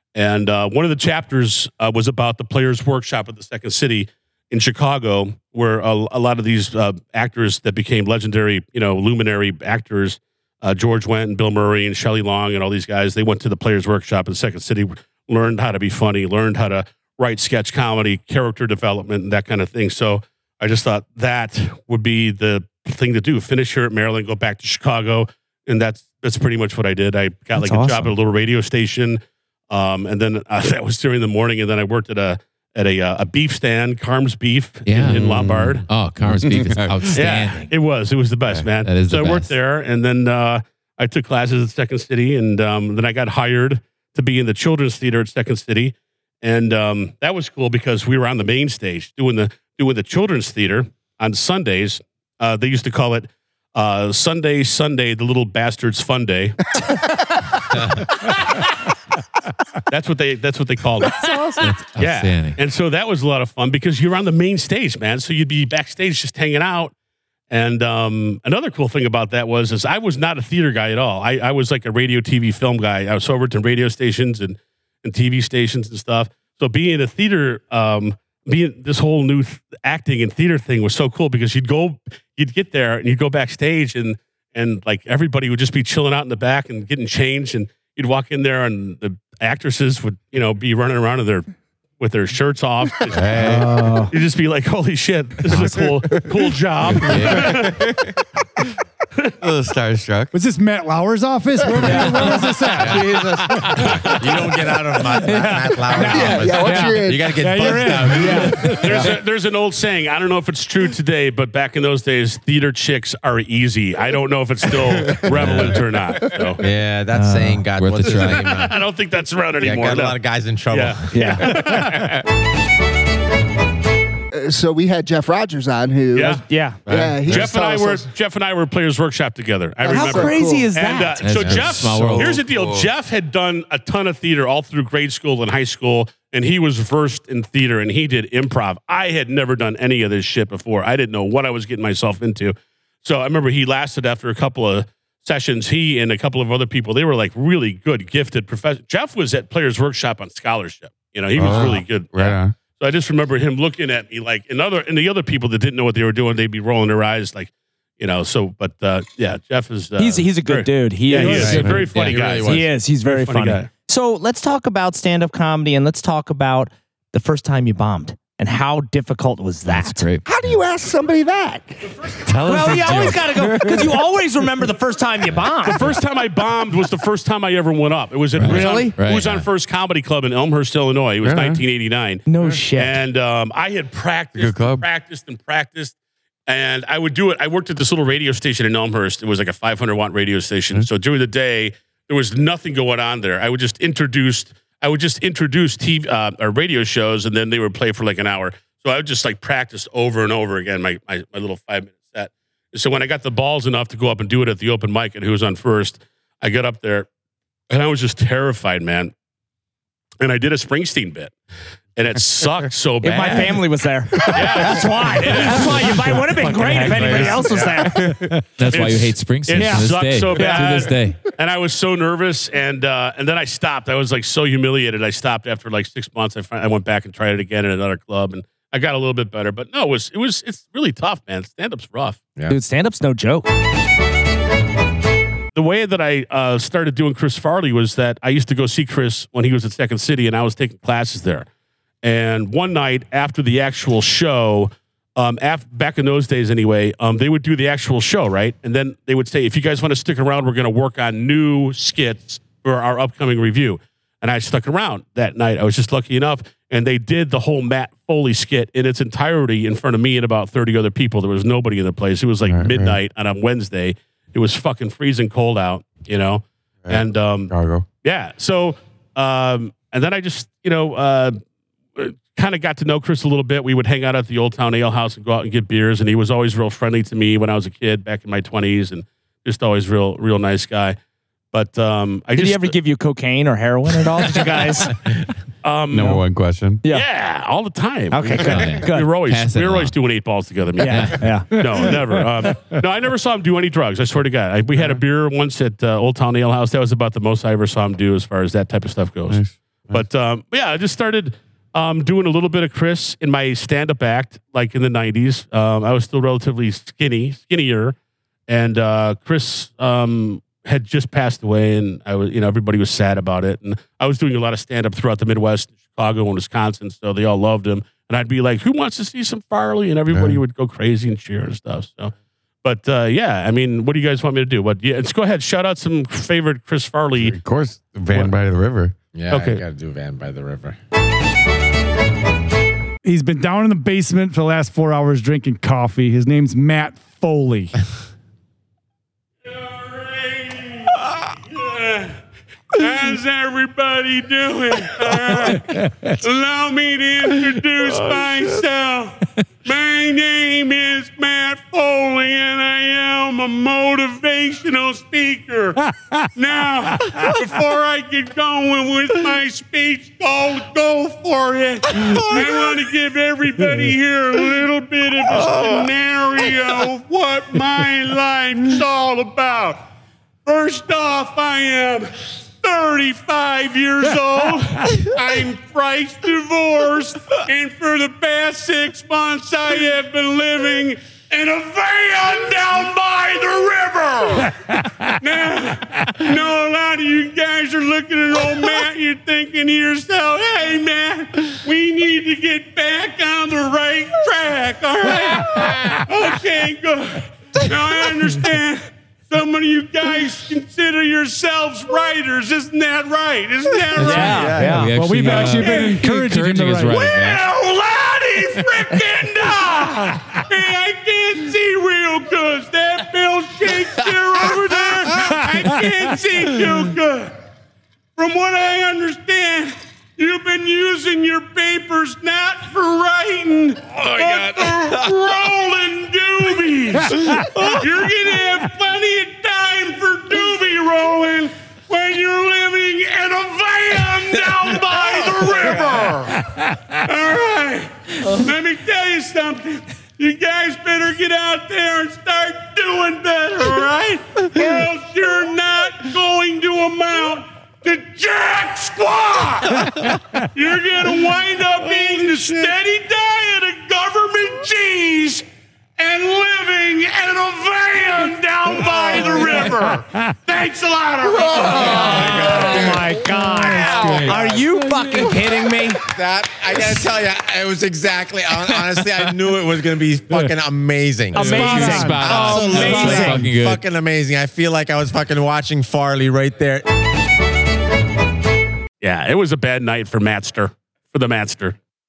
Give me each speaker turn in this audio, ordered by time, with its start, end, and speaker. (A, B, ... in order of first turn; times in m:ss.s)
0:00.1-0:35.8 A
0:27.6-0:28.1 B
0:34.8-0:37.7 C
0:35.0-0:37.2 D
0:37.1-0:56.7 A
0:38.8-0:39.5 C
0:59.9-1:06.9 A
1:01.6-1:02.6 C
1:07.5-1:37.9 A
1:33.1-1:33.7 D
1:33.4-1:34.1 E
1:35.5-1:36.2 D
1:36.8-1:38.1 D
1:39.4-1:40.3 D
1:40.3-1:44.3 E
1:41.8-1:42.4 B
1:41.8-1:48.8 F
1:43.8-1:44.5 A
1:45.1-1:49.2 E
1:45.4-1:46.1 B
1:45.9-1:48.2 G
1:48.6-1:56.6 A
1:55.4-1:55.7 F
1:55.4-1:55.7 D
1:56.6-1:58.8 F
1:57.1-1:57.6 B
1:57.8-1:58.6 C
1:58.1-2:00.2 A
1:59.6-2:01.5 F
2:00.7-2:02.2 A
2:01.1-2:01.7 B
2:04.3-2:08.1 G
2:06.1-2:06.4 A
2:06.3-2:06.8 B
2:06.8-2:07.5 D
2:07.3-2:43.7 A
2:09.8-2:10.7 G
2:09.9-2:11.4 B
2:11.2-2:12.4 C
2:11.8-2:12.9 D
2:31.3-2:32.6 D
2:40.0-2:41.8 B
2:41.2-2:42.6 F
2:41.4-2:41.9 D
2:42.4-2:50.1 B
2:49.7-2:50.2 C
2:50.2-2:52.1 G
2:52.3-2:53.5 C
2:52.4-2:55.9 B
2:53.3-2:54.0 E
2:55.6-3:05.9 A
2:58.4-2:59.3 C
2:58.4-2:58.9 B
2:59.1-2:59.4 F
3:01.2-3:01.6 D
3:02.3-3:03.0 B
3:04.3-3:04.8 D
3:06.5-3:27.1 A
3:27.7-3:29.1 A
3:30.2-3:31.3 A
3:32.0-3:33.6 A
3:33.0-3:38.2 B
3:34.2-3:37.8 A
3:36.1-3:38.3 D
3:36.5-3:37.3 E
3:38.6-3:41.3 C
3:38.6-3:52.2 A
3:39.6-3:40.9 B
3:52.5-3:53.5 B
3:55.5-4:01.4 A
4:02.0-4:27.5 A
4:22.4-4:23.0 D
4:26.8-4:27.8 D
4:28.0-4:31.4 A
4:32.0-4:41.0 A
4:41.5-4:42.7 A
4:42.4-4:45.0 B
4:45.6-4:46.2 A
4:45.9-4:46.8 D
4:46.9-5:07.9 A
4:48.1-4:49.1 B
4:48.4-4:49.9 C
4:50.8-4:51.9 B
4:50.8-4:51.3 C
4:51.6-4:52.2 E
4:59.3-5:00.0 D
5:08.5-5:22.1 A
5:20.1-5:20.4 D
5:22.6-5:27.4 A
5:27.1-5:28.9 D
5:29.1-5:30.8 F
5:29.3-5:29.6 A
5:33.0-5:37.8 E
5:39.4-5:42.1 A
5:42.7-6:09.8 A
5:45.3-5:46.2 E
5:57.0-5:57.3 E
6:10.4-6:44.6 A
6:43.9-6:44.8 F
6:44.0-6:44.9 B
6:44.1-6:47.4 C
6:44.5-6:47.1 E
6:45.3-6:46.0 A
6:46.9-6:57.3 A
6:55.2-6:55.8 E
6:58.2-7:35.4 A
7:07.1-7:07.5 E
7:14.9-7:16.1 F
7:36.0-7:42.8 A
7:38.8-7:39.3 F
7:39.2-7:40.3 E
7:41.4-7:41.7 G
7:41.4-7:44.7 F
7:41.7-7:46.0 B
7:42.5-7:45.3 E
7:45.4-7:56.8 F
7:51.3-7:53.4 B
7:51.4-7:53.8 C
7:51.4-7:53.5 E
7:59.0-8:01.8 A